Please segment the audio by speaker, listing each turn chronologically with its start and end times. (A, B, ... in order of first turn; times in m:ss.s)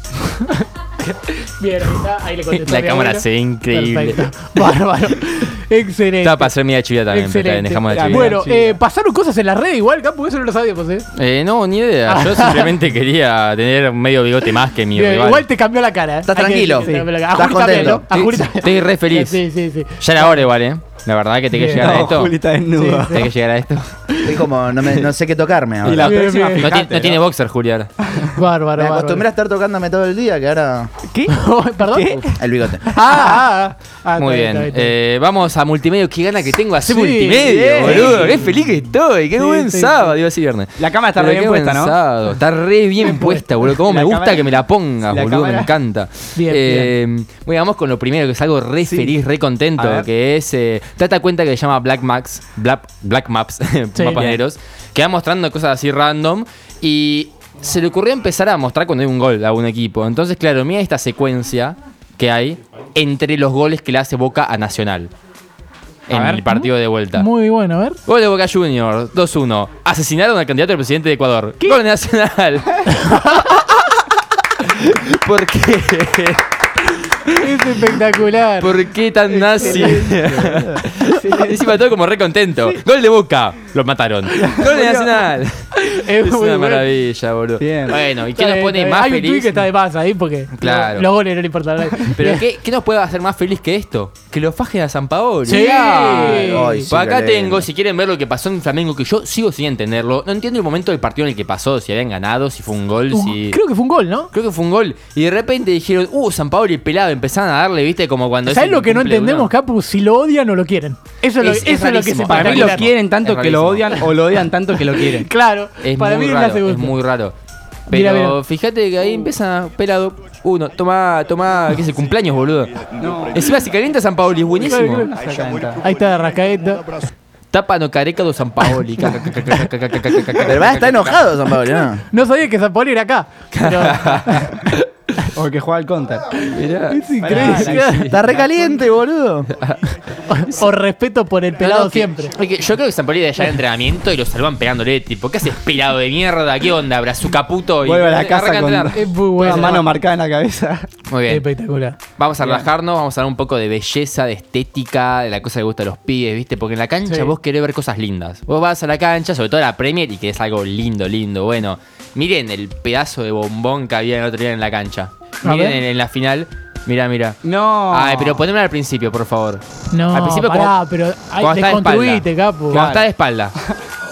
0:00.2-0:06.5 A
0:02.5-0:04.2 B
0:06.2-0:08.4 B
0:07.1-0:11.1 A
0:07.9-0:08.8 C
0:11.1-0:15.4 B
0:12.1-0:12.7 A
0:14.9-0:20.4 A
0:16.3-0:18.0 D
0:16.8-0:17.1 C
0:18.0-0:19.4 B
0:20.0-0:22.4 B
0:21.5-0:22.1 A
0:21.7-0:23.3 C
0:22.7-0:23.3 A
0:23.1-0:23.9 B
0:24.2-0:26.2 D
0:25.8-0:27.2 C
0:26.0-0:26.7 A
0:26.6-0:27.9 B
0:28.3-0:29.2 A
0:28.8-0:30.9 D
0:31.1-0:33.4 C
0:31.3-0:32.2 A
0:32.3-0:32.8 D
0:32.9-0:34.9 A
0:34.2-1:05.1 B
0:36.8-0:38.4 A
0:37.4-0:38.4 C
0:39.3-0:40.1 A
0:40.8-0:42.0 C
0:43.0-0:43.5 A
0:43.8-0:45.7 C
0:46.3-0:46.9 A
0:48.8-0:49.1 C
0:49.8-0:50.1 C
0:53.9-0:54.3 A
0:54.1-0:54.4 C
1:06.1-1:07.2 B
1:06.1-1:06.4 C
1:06.4-1:08.0 A
1:08.0-1:14.0 B
1:12.9-1:13.4 A
1:14.6-1:16.4 B
1:17.3-1:17.6 B
1:17.3-1:18.7 A
1:18.6-1:29.6 B
1:19.3-1:21.7 C
1:24.4-1:25.2 C
1:25.8-1:26.8 A
1:27.6-1:28.0 C
1:28.3-1:32.4 A
1:30.6-1:31.1 B
1:32.1-1:43.6 B
1:35.4-1:36.8 A
1:35.5-1:36.5 C
1:36.4-1:37.7 D
1:43.1-1:44.3 A
1:44.3-1:49.5 B
1:48.5-1:52.9 A
1:51.4-1:54.1 B
1:52.2-1:55.3 C
1:54.9-1:57.0 A
1:55.8-1:57.3 B
1:57.9-2:05.1 B
1:57.9-1:58.4 A
2:03.0-2:03.4 C
2:04.6-2:07.0 A
2:05.0-2:05.8 C
2:07.5-2:11.2 B
2:10.4-2:12.0 D
2:12.1-2:14.7 A
2:13.5-2:14.7 B
2:15.3-2:16.4 C
2:16.4-2:18.2 B
2:16.9-2:18.1 A
2:17.2-2:18.9 C
2:18.0-2:19.5 D
2:19.6-2:19.9 B
2:20.3-2:22.3 A
2:21.6-2:29.8 B
2:27.8-2:30.9 C
2:28.9-2:29.8 A
2:31.1-2:31.4 B
2:31.3-2:32.0 A
2:32.2-2:50.8 B
2:32.4-2:32.7 C
2:37.1-2:37.3 A
2:45.4-2:45.8 A
2:47.4-2:48.4 C
2:49.9-2:52.9 A
2:51.4-2:53.5 B
2:52.7-2:53.1 C